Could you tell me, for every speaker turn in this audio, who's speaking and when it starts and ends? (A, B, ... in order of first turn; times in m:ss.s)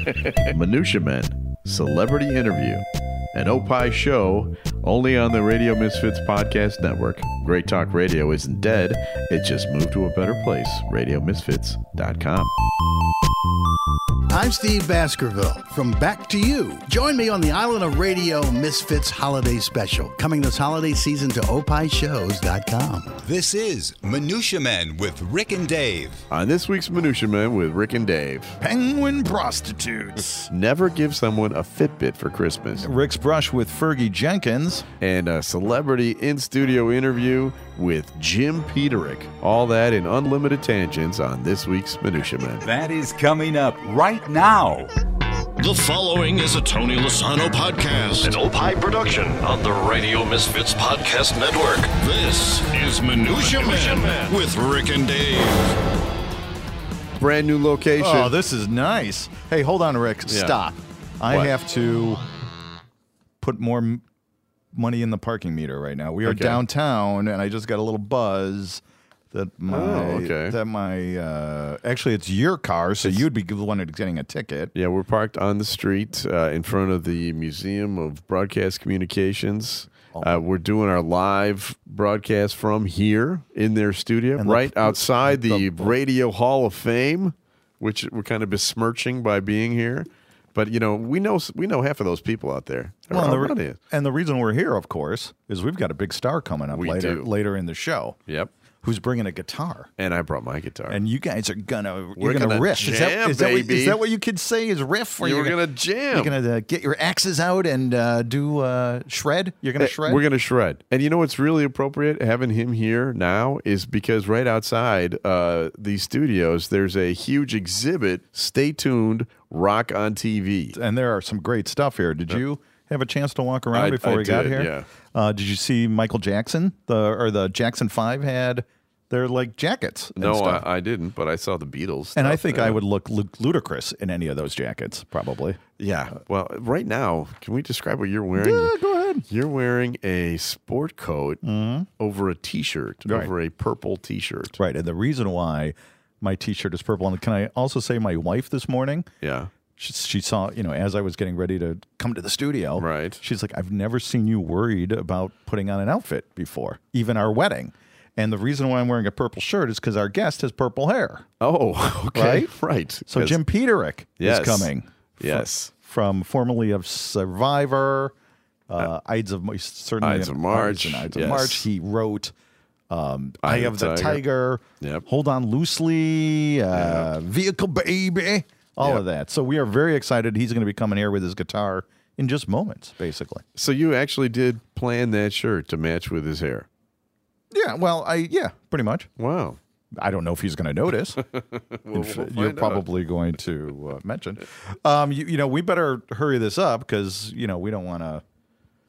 0:00.4-0:12.5 A
0:14.3-0:23.1 B
0:23.2-0:26.2 C
0:26.3-0:28.6 A
0:28.6-0:30.5 D
0:30.5-0:32.9 A
0:32.8-0:34.8 D
0:35.0-0:42.7 A
0:42.6-0:44.9 C
0:45.6-0:55.8 E
0:57.2-0:58.3 A
0:58.0-1:02.2 D
1:00.3-1:00.6 A
1:03.4-1:04.0 D
1:04.7-1:14.7 D
1:06.2-1:06.6 A
1:09.7-1:10.6 A
1:14.7-1:33.8 A
1:20.1-1:20.5 D
1:24.4-1:25.9 D
1:33.1-1:38.2 D
1:36.7-1:37.3 A
1:38.8-1:39.9 D
1:40.0-1:41.0 A
1:40.9-1:45.6 D
1:42.2-1:44.0 A
1:45.2-1:46.4 A
1:46.1-1:50.2 D
1:49.8-2:00.8 A
2:00.7-2:10.6 D
2:03.7-2:04.9 A
2:10.2-2:12.8 A
2:12.2-2:15.6 D
2:15.8-2:18.8 A
2:18.3-2:19.2 D
2:19.3-2:21.4 A
2:21.4-2:21.9 D
2:22.0-2:24.6 A
2:23.0-2:23.3 D
2:24.6-2:29.1 D
2:29.2-2:29.5 A
2:29.8-2:41.3 D
2:32.8-2:33.2 A
2:41.4-2:43.4 A
2:42.1-2:42.5 D
2:43.1-2:48.1 D
2:44.2-2:45.7 A
2:48.7-2:52.3 D
2:50.0-2:51.6 A
2:52.9-3:03.4 D
2:53.4-2:54.2 A
2:56.7-2:57.1 A
3:03.6-3:06.7 A
3:07.5-3:09.1 D
3:09.2-3:09.6 A
3:10.0-3:11.2 D
3:11.3-3:12.8 A
3:11.9-3:18.2 D